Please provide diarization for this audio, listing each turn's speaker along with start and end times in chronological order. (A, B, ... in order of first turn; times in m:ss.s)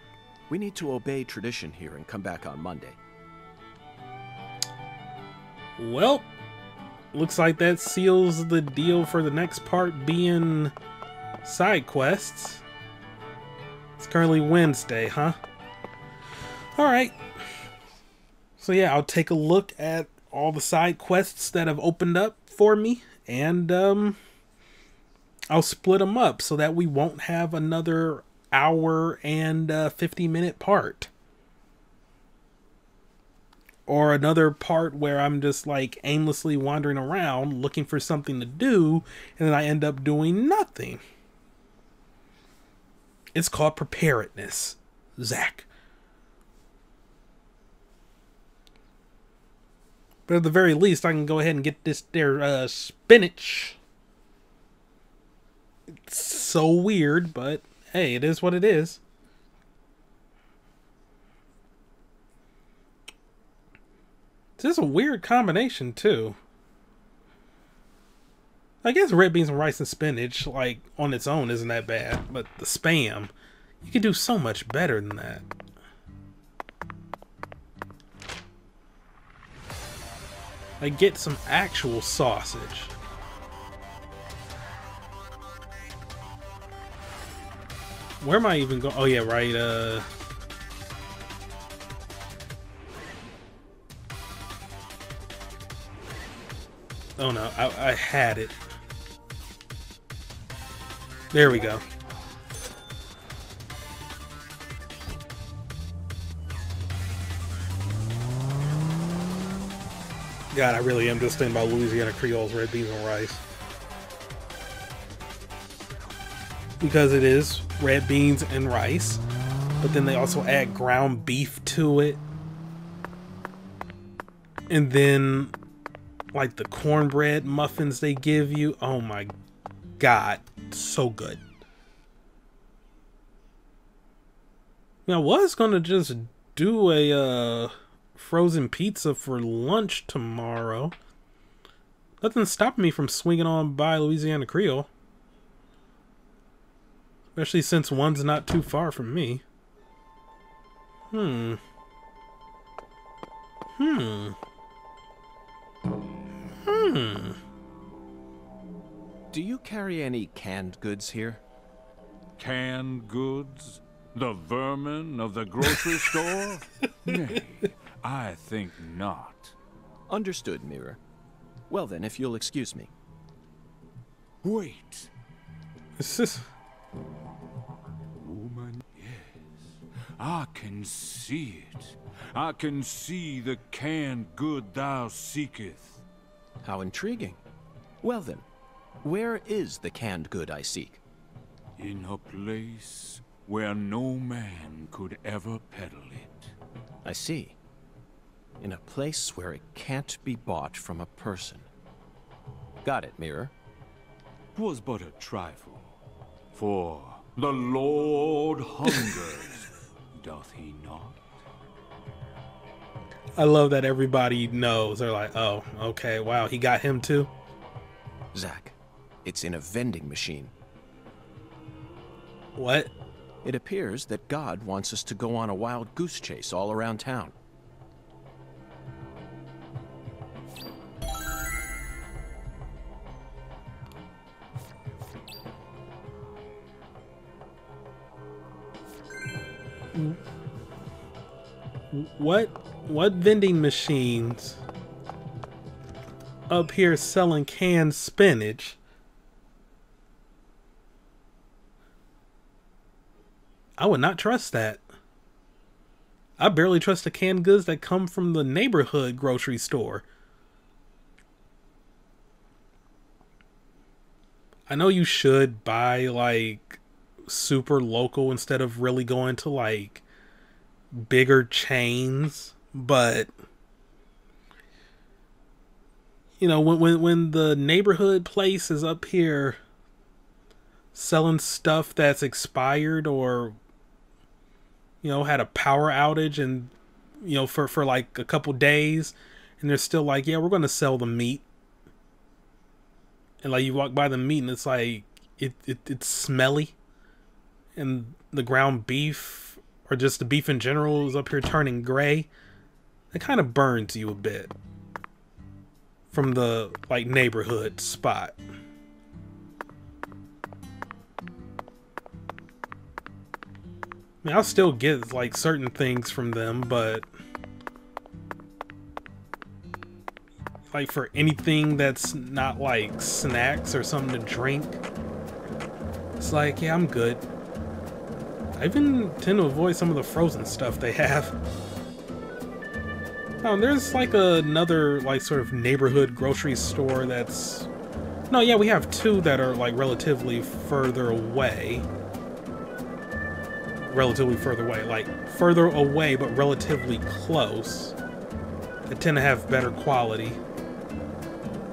0:00.5-0:03.0 A
0:05.8-0:06.3 B
0:07.1-0:10.7 B
0:11.4-0:12.6 B
0:14.0-0:15.4 B
0:16.8-0:17.2 B
0:18.6-0:24.2 B
0:25.5-0:31.1 B
0:33.9-0:41.0 B
0:43.4-0:45.7 B
0:50.3-0:53.8 B
0:56.1-0:59.0 B
1:04.6-1:06.4 B
1:08.8-1:13.3 B
1:13.8-1:15.4 B
1:20.8-1:22.9 B
1:28.2-1:30.0 B
1:37.2-1:38.5 B
1:41.3-1:41.8 B
1:50.5-1:53.4 B
1:56.8-1:59.2 B
1:59.8-2:02.2 B
2:04.7-2:05.5 B
2:06.3-2:09.3 B
2:10.0-2:11.4 B
2:15.1-2:20.9 B
2:22.2-2:24.9 B
2:27.4-2:29.4 B
2:31.1-2:31.6 B
2:33.8-2:34.4 B
2:36.6-2:37.4 B
2:39.3-2:41.4 A
2:42.4-2:49.5 C
2:50.1-2:51.0 A
2:51.7-2:52.9 A
2:54.4-2:55.1 C
2:56.0-2:56.5 B
2:58.1-3:06.0 C
3:06.6-3:07.4 A
3:08.0-3:08.4 A
3:09.0-3:11.0 A
3:11.8-3:16.5 C
3:17.0-3:17.6 A
3:18.6-3:21.7 A
3:22.8-3:23.5 A
3:24.5-3:26.0 C
3:26.5-3:31.2 C
3:33.4-3:37.3 B
3:38.3-3:40.5 A
3:42.6-3:42.9 B
3:43.4-3:47.3 A
4:01.9-4:04.6 B
4:06.5-4:08.8 B
4:13.8-4:14.8 B
4:16.4-4:20.0 B
4:24.7-4:30.0 B
4:30.9-4:33.3 B
4:36.4-4:39.6 B
4:40.9-4:43.6 B
4:45.0-4:51.4 B
4:53.4-4:56.7 B
4:57.8-5:02.3 B
5:03.1-5:04.5 B
5:06.1-5:08.4 B
5:14.2-5:17.0 B
5:20.7-5:24.8 B
5:26.2-5:27.2 B
5:28.6-5:31.3 B
5:33.4-5:37.7 B
5:38.3-5:41.9 B
5:43.8-5:47.9 B
5:48.9-5:50.4 B